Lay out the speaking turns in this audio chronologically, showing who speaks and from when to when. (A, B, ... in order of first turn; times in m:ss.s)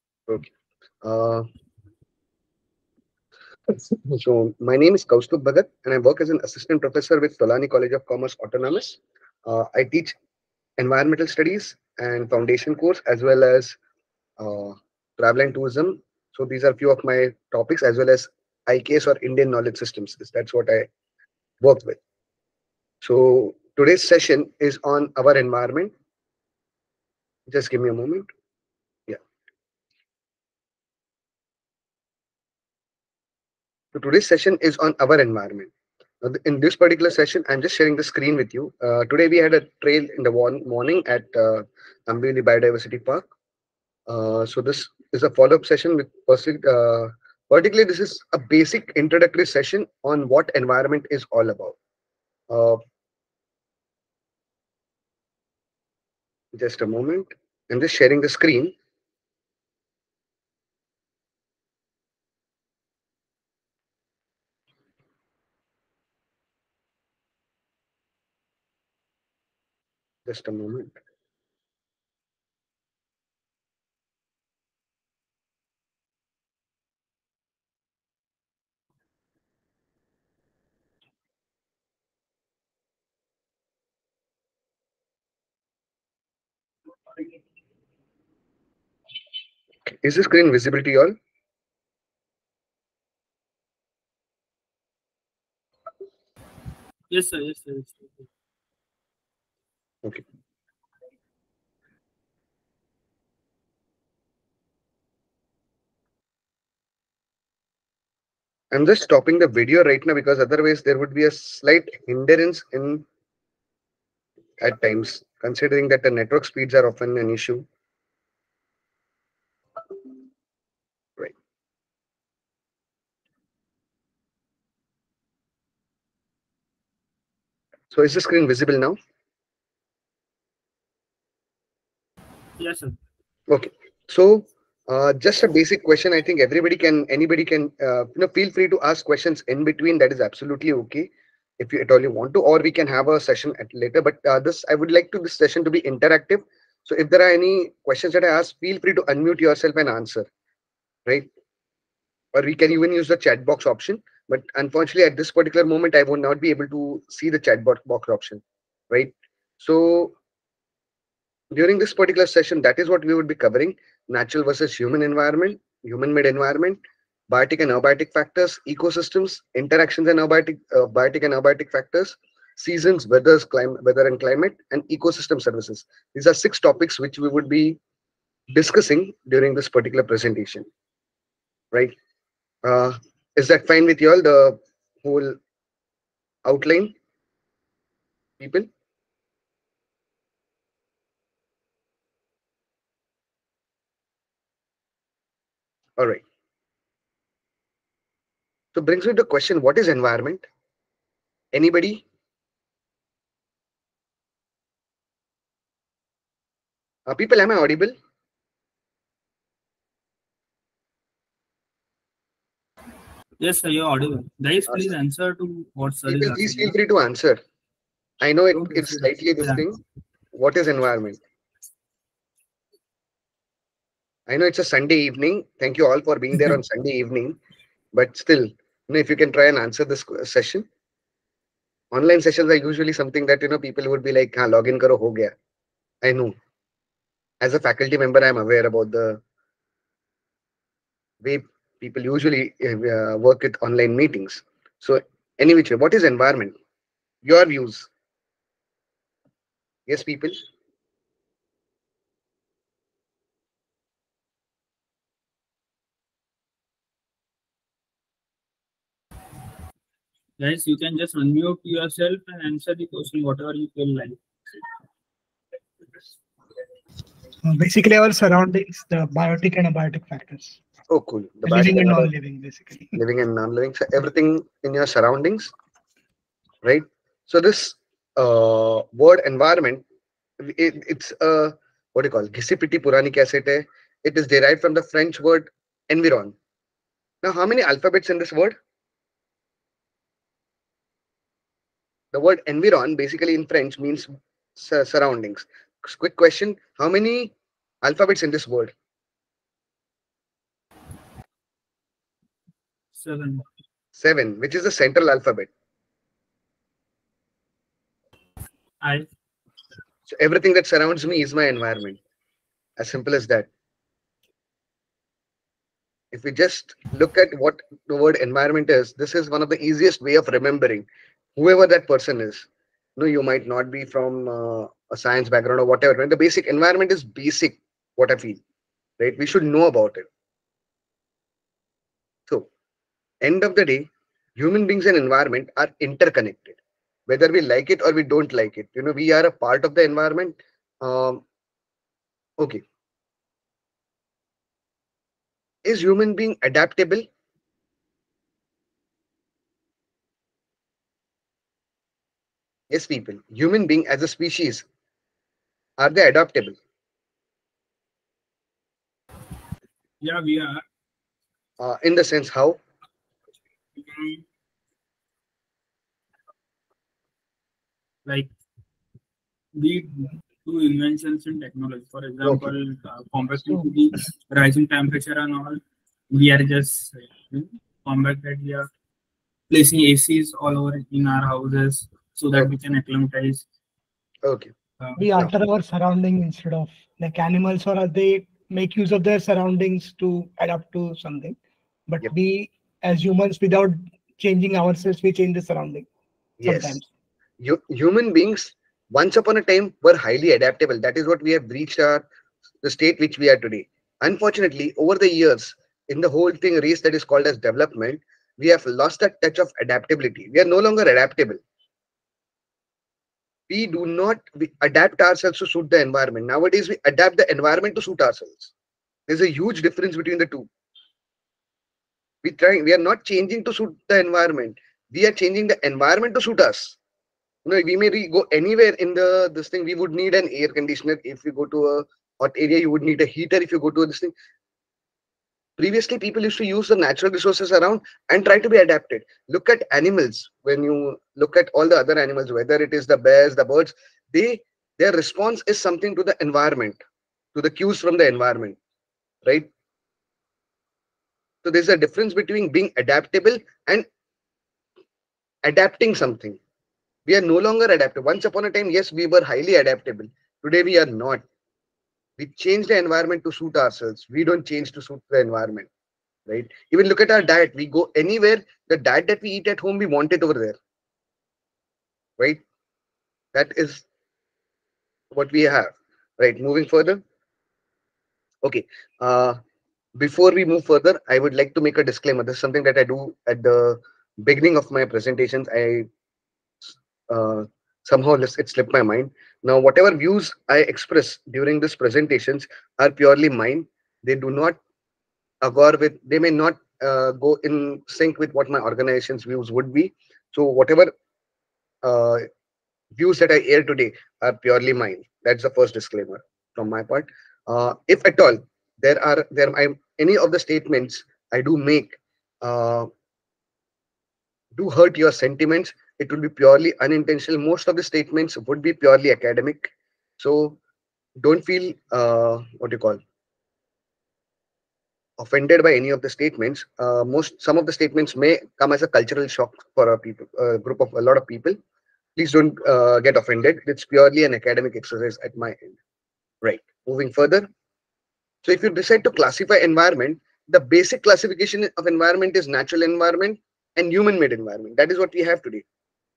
0:01.0-0:01.4 A
0:03.7-0:10.2 A
0:10.8-0:13.8 A
0:14.4-0:20.9 A
0:21.6-0:22.0 A
0:23.0-0:25.9 A
0:27.5-0:28.3 A
0:33.9-0:35.7 A
0:36.2-0:43.3 A
0:44.1-0:51.8 A
0:52.5-0:52.8 A
0:56.5-0:58.7 A
1:10.3-1:11.0 A
1:29.9-1:31.2 A
1:37.1-1:38.3 B
1:48.7-1:53.1 A
1:54.6-1:57.7 A
2:07.9-2:09.0 A
2:12.6-2:13.0 B
2:13.5-2:21.1 A
2:21.6-2:30.3 A
2:32.3-2:40.2 A
2:41.5-2:57.8 A
2:58.5-3:00.7 A
3:02.6-3:05.4 A
3:06.4-3:07.0 A
3:08.4-3:08.7 A
3:16.0-3:16.2 A
3:18.7-3:20.5 A
3:21.5-3:22.0 A
3:27.1-3:28.0 A
3:33.4-3:36.8 B
3:36.1-3:37.4 A
3:38.2-3:39.8 A
3:38.6-3:39.6 B
3:40.3-3:41.2 A
3:44.3-3:47.4 A
3:47.9-3:50.7 A
3:51.9-3:55.3 A
3:56.0-3:56.4 A
3:57.4-3:59.2 A
4:01.2-4:06.6 A
4:07.2-4:07.9 A
4:09.9-4:10.4 A
4:20.4-4:24.2 B
4:27.4-4:30.6 C
4:30.9-4:32.1 A
4:31.5-4:33.0 C
4:33.0-4:35.5 A
4:36.6-4:39.8 A
4:40.4-4:46.4 A
4:47.2-4:48.6 A
4:52.1-4:58.7 A
5:03.0-5:03.4 B
5:04.0-5:05.5 A
5:08.8-5:09.1 B
5:10.1-5:12.0 A
5:12.8-5:13.5 A
5:16.1-5:28.4 A
5:29.0-5:30.1 A
5:33.2-5:41.2 A
5:45.6-5:47.1 A
5:52.7-5:54.6 A
5:55.8-5:56.6 A
6:00.0-6:00.6 B
6:01.6-6:02.6 A
6:03.8-6:04.2 B
6:09.6-6:18.7 B
6:12.2-6:12.5 A
6:19.5-6:23.5 B
6:24.2-6:24.5 A
6:25.0-6:31.4 C
6:31.9-6:35.9 C
6:36.4-6:36.8 A
6:36.5-6:36.8 C
6:37.4-6:42.0 A
6:42.6-6:51.4 A
6:53.5-6:58.5 A
6:59.1-7:00.5 A
7:02.2-7:06.8 A
7:07.4-7:14.1 A
7:15.6-7:26.8 A
7:27.4-7:28.6 A
7:31.4-7:33.9 A
7:35.4-7:36.4 A
7:37.1-7:41.2 A
7:42.2-7:45.7 A
7:46.3-7:50.6 A
7:53.3-7:53.8 A
7:55.1-7:57.0 A
7:58.4-7:59.4 A
8:00.0-8:05.9 A
8:06.7-8:14.6 A
8:15.4-8:20.9 A
8:21.8-8:22.3 A
8:23.0-8:32.9 A
8:34.6-8:40.6 A
8:41.2-8:43.0 A
8:45.2-8:51.6 A
8:52.2-8:55.8 A
8:56.4-8:57.5 A
8:58.4-9:05.6 A